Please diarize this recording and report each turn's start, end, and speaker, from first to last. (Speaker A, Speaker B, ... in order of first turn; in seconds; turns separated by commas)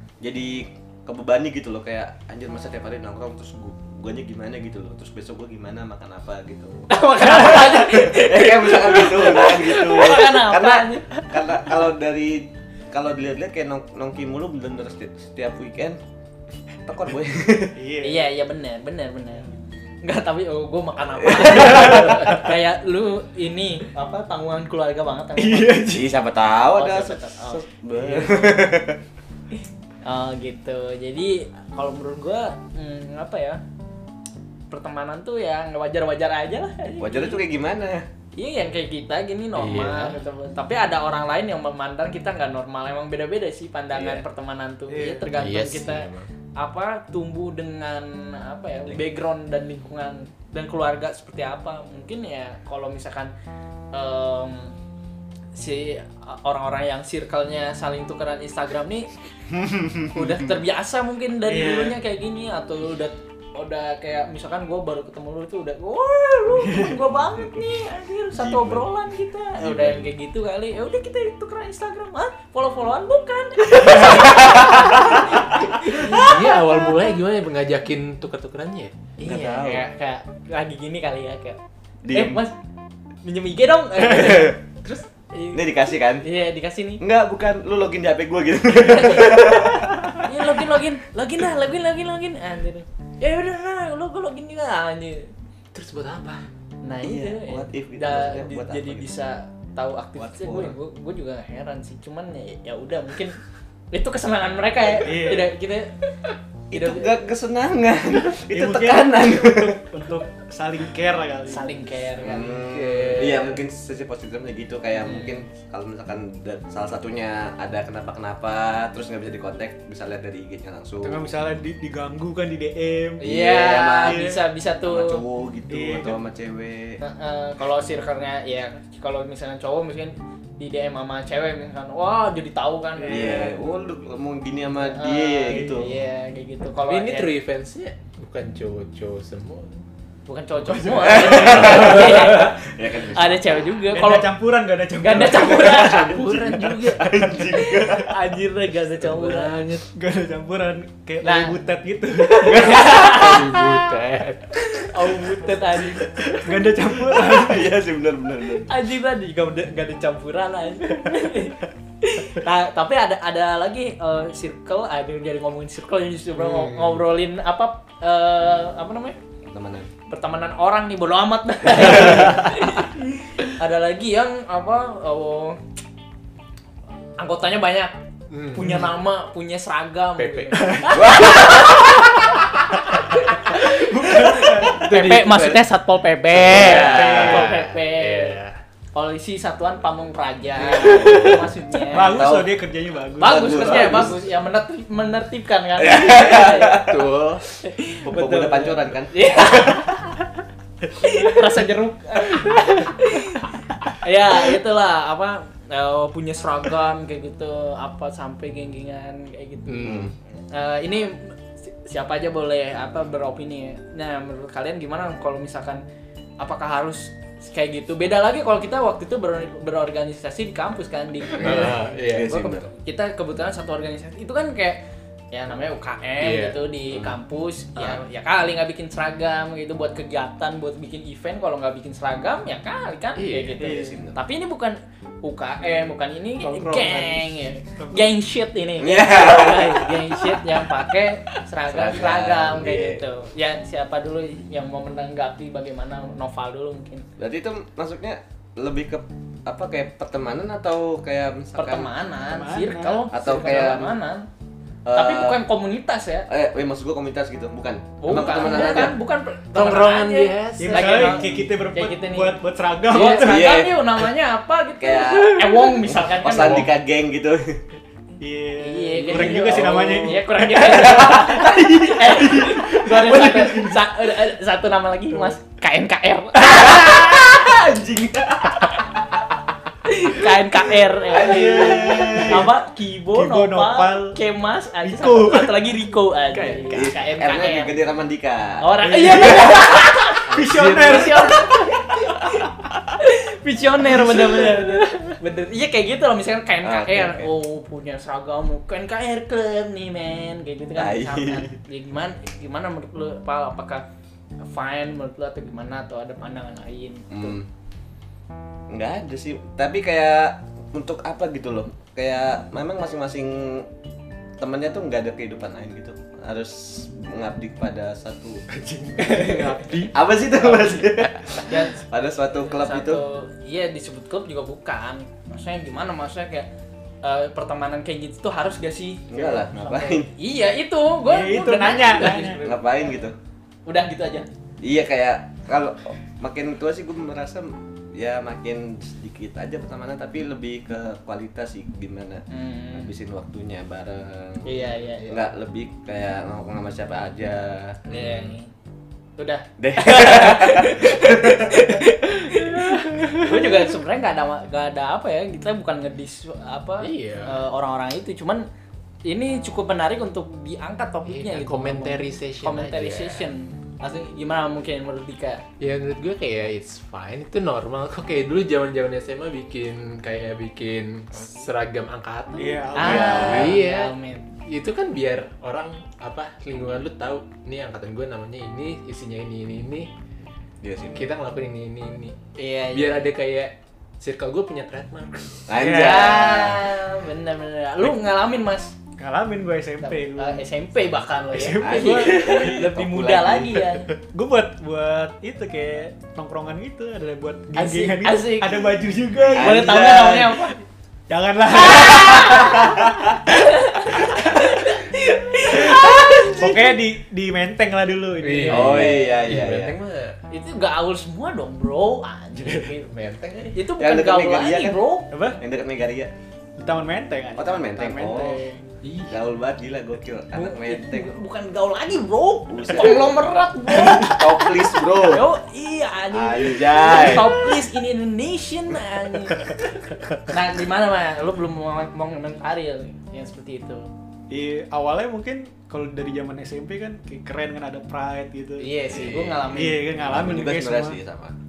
Speaker A: 0.2-16.0, Speaker B: 6.9-11.3, Speaker A: 16.9-17.8, Speaker C: 17.7-18.3, Speaker B: 18.0-19.5, Speaker B: 20.0-25.9, Speaker A: 21.2-22.4, Speaker C: 25.4-26.2, Speaker A: 25.9-29.0, Speaker B: 26.8-28.7, Speaker B: 30.0-33.6, Speaker B: 34.7-37.4, Speaker A: 37.0-38.1, Speaker B: 38.4-53.3, Speaker D: 39.6-40.2, Speaker A: 43.9-44.2, Speaker C: 44.9-45.3, Speaker D: 45.4-46.3, Speaker B: 53.9-54.7, Speaker B: 55.5-59.1, Speaker A: 59.5-60.3, Speaker B: 60.1-76.8, Speaker C: 61.5-62.0, Speaker C: 66.7-67.0, Speaker A: 68.3-68.9, Speaker A: 69.6-70.1, Speaker A: 73.8-75.2, Speaker D: 75.8-79.0, Speaker B: 79.2-81.6, Speaker A: 79.2-79.9, Speaker A: 82.0-82.4, Speaker B: 82.1-82.5, Speaker B: 83.2-87.0, Speaker A: 84.0-84.6, Speaker A: 85.5-86.3, Speaker A: 87.0-90.6, Speaker B: 88.7-95.3, Speaker D: 95.7-96.4, Speaker B: 96.8-103.4, Speaker A: 97.0-99.1, Speaker A: 100.2-100.8, Speaker B: 103.9-106.0, Speaker C: 105.0-105.5, Speaker A: 106.7-109.8, Speaker B: 106.7-107.3, Speaker C: 108.5-111.7, Speaker B: 111.5-112.6, Speaker A: 112.2-121.2, Speaker D: 112.6-113.6, Speaker B: 115.0-115.4, Speaker C: 121.0-123.3, Speaker B: 123.2-125.2, Speaker A: 123.2-127.0, Speaker C: 124.0-124.4, Speaker C: 125.7-126.2, Speaker B: 127.0-133.5, Speaker C: 133.0-133.5, Speaker A: 133.1-136.0, Speaker B: 134.8-137.3, Speaker C: 135.5-135.9, Speaker D: 136.8-139.8, Speaker B: 140.3-142.6, Speaker C: 140.7-141.8, Speaker A: 141.0-143.7, Speaker B: 143.1-144.3, Speaker C: 143.9-146.3, Speaker B: 145.0-149.8, Speaker D: 145.6-147.0, Speaker A: 146.8-148.2, Speaker D: 149.0-149.9, Speaker C: 149.9-152.9, Speaker B: 151.2-151.6, Speaker B: 152.2-153.8, Speaker A: 152.7-153.2, Speaker D: 152.9-154.9, Speaker B: 154.8-156.5, Speaker C: 156.3-157.8, Speaker A: 157.0-158.7, Speaker B: 158.7-169.2, Speaker D: 166.4-166.9, Speaker A: 169.4-169.9, Speaker B: 170.1-175.6, Speaker B: 177.2-177.9, Speaker D: 178.3-178.9, Speaker B: 178.5-182.2, Speaker D: 180.2-181.0, Speaker C: 180.7-180.9, Speaker A: 180.9-182.1, Speaker B: 182.7-188.4, Speaker C: 183.8-184.8, Speaker A: 184.1-185.6, Speaker D: 184.6-185.6, Speaker D: 186.4-188.6, Speaker A: 186.5-187.4, Speaker C: 186.6-187.5, Speaker B: 188.9-192.2, Speaker A: 190.8-191.4, Speaker D: 190.9-191.4, Speaker C: 191.9-194.0, Speaker A: 192.0-192.5, Speaker B: 193.2-196.9, Speaker A: 193.2-194.2, Speaker A: 195.8-197.4, Speaker D: 196.7-197.4, Speaker B: 197.6-199.9, Speaker A: 198.0-199.9, Speaker B: 201.0-209.9, Speaker D: 209.7-210.1, Speaker A: 209.8-210.1, Speaker B: 210.5-215.8, Speaker B: 216.4-247.1, Speaker D: 221.3-222.4, Speaker A: 221.4-222.7, Speaker D: 226.2-226.6, Speaker A: 226.9-227.2, Speaker D: 233.2-233.7, Speaker A: 233.6-234.2, Speaker C: 233.6-234.0, Speaker C: 236.4-238.1, Speaker A: 238.8-240.3, Speaker A: 241.7-243.0, Speaker A: 247.2-251.9, Speaker B: 251.6-254.3, Speaker C: 252.3-253.1, Speaker A: 253.1-254.0, Speaker A: 254.8-255.4, Speaker B: 254.9-256.3, Speaker A: 256.3-258.9, Speaker B: 258.0-266.7, Speaker D: 258.1-259.0, Speaker D: 259.5-261.3, Speaker C: 260.6-263.5, Speaker A: 263.0-264.1, Speaker A: 264.8-267.6, Speaker C: 268.2-270.4, Speaker B: 268.6-277.2, Speaker D: 269.1-269.8, Speaker A: 269.8-273.7, Speaker A: 276.4-278.9, Speaker B: 279.9-287.7, Speaker A: 281.1-282.5, Speaker C: 281.7-282.5, Speaker C: 283.1-284.2, Speaker C: 284.8-285.6, Speaker D: 286.3-287.0, Speaker A: 286.7-289.7, Speaker B: 288.6-303.8, Speaker C: 288.9-289.6, Speaker C: 290.3-291.8, Speaker D: 290.3-291.3, Speaker A: 292.0-292.4, Speaker C: 294.1-294.6, Speaker A: 296.6-297.3, Speaker A: 300.8-301.5, Speaker B: 304.4-307.4, Speaker A: 307.1-307.5, Speaker A: 308.7-313.7, Speaker A: 314.4-318.4, Speaker C: 318.6-319.6, Speaker D: 318.9-320.0, Speaker A: 319.9-323.0, Speaker B: 320.4-320.9, Speaker B: 321.4-326.5, Speaker B: 327.0-333.1, Speaker A: 329.1-330.1, Speaker C: 331.1-332.4, Speaker A: 332.3-333.1, Speaker B: 333.7-334.3, Speaker A: 334.6-347.8, Speaker B: 342.3-342.9, Speaker B: 344.4-345.3, Speaker B: 347.9-348.5, Speaker D: 347.9-348.2, Speaker B: 349.2-358.5, Speaker A: 349.6-352.0, Speaker D: 356.8-357.4, Speaker B: 359.1-365.4, Speaker D: 361.1-363.3, Speaker D: 365.6-379.9, Speaker C: 372.4-373.5, Speaker B: 372.8-374.3, Speaker A: 372.8-373.6, Speaker A: 380.6-381.1, Speaker D: 380.9-382.2, Speaker B: 382.4-383.1, Speaker D: 382.7-385.5, Speaker A: 385.5-386.7, Speaker B: 385.6-388.8, Speaker C: 385.6-386.1, Speaker C: 389.0-390.5, Speaker B: 389.8-393.9, Speaker C: 391.3-392.4, Speaker A: 391.5-393.8, Speaker C: 394.1-399.9, Speaker B: 397.6-400.6, Speaker A: 399.3-400.5, Speaker C: 401.1-403.3, Speaker B: 401.6-402.7, Speaker A: 402.2-403.1, Speaker B: 403.3-406.5, Speaker C: 403.9-404.5, Speaker A: 405.4-406.6, Speaker C: 405.5-409.0, Speaker D: 408.2-410.2, Speaker A: 408.5-409.8, Speaker B: 408.9-409.3, Speaker B: 410.3-412.9, Speaker D: 412.6-413.6, Speaker B: 413.5-415.1, Speaker A: 413.8-416.1, Speaker C: 415.1-415.4, Speaker C: 416.6-418.7, Speaker A: 417.4-418.4, Speaker D: 418.8-419.2, Speaker A: 419.1-421.2, Speaker B: 420.3-429.6, Speaker A: 422.5-423.2, Speaker A: 423.7-425.3, Speaker A: 426.1-427.5, Speaker B: 430.3-433.9, Speaker C: 434.3-438.8, Speaker B: 438.6-440.0, Speaker A: 438.9-441.4, Speaker C: 439.5-441.0